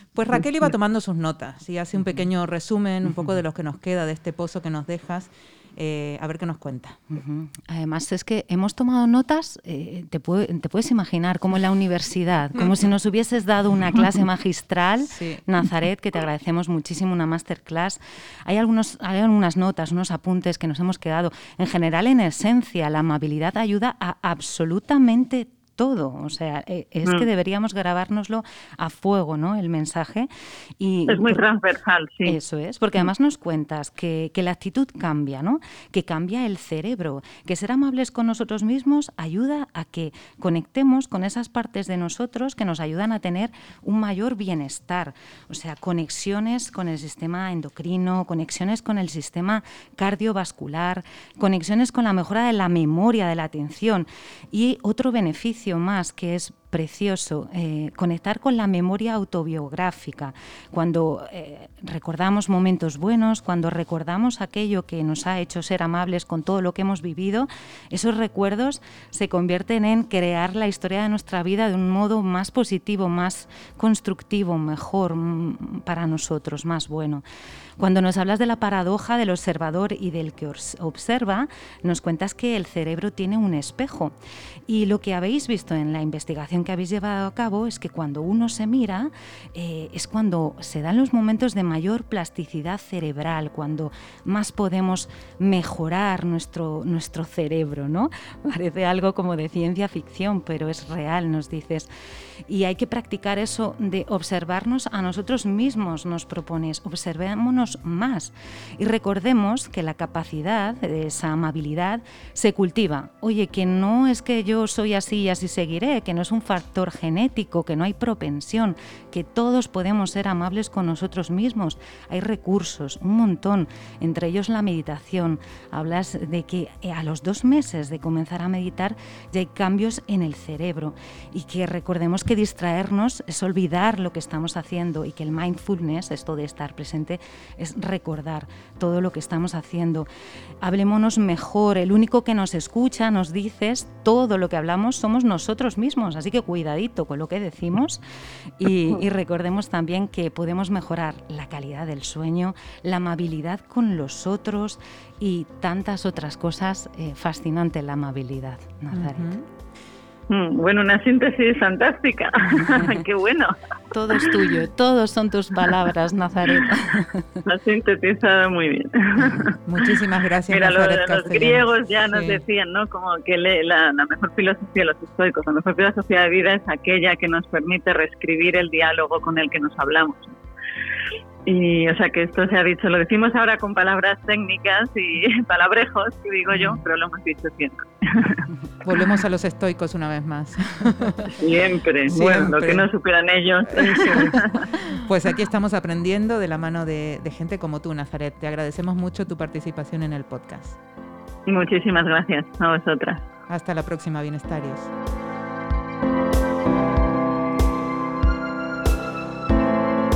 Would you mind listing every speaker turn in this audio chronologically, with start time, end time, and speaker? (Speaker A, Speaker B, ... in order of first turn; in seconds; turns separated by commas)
Speaker A: 0.1-7.0, Speaker B: 7.1-31.4, Speaker A: 15.1-15.4, Speaker C: 31.1-32.4, Speaker B: 32.3-77.2, Speaker B: 77.8-84.1, Speaker B: 84.7-101.9, Speaker B: 102.5-140.1, Speaker B: 140.6-148.0, Speaker B: 148.6-159.4, Speaker A: 158.9-159.4, Speaker C: 160.3-163.6, Speaker B: 163.9-167.3, Speaker C: 167.4-169.6, Speaker A: 169.6-172.4, Speaker C: 170.5-180.4, Speaker C: 181.5-188.4, Speaker A: 188.8-191.3, Speaker C: 191.4-194.6, Speaker A: 192.1-192.9, Speaker A: 193.7-200.8, Speaker C: 201.5-203.2, Speaker A: 203.5-204.9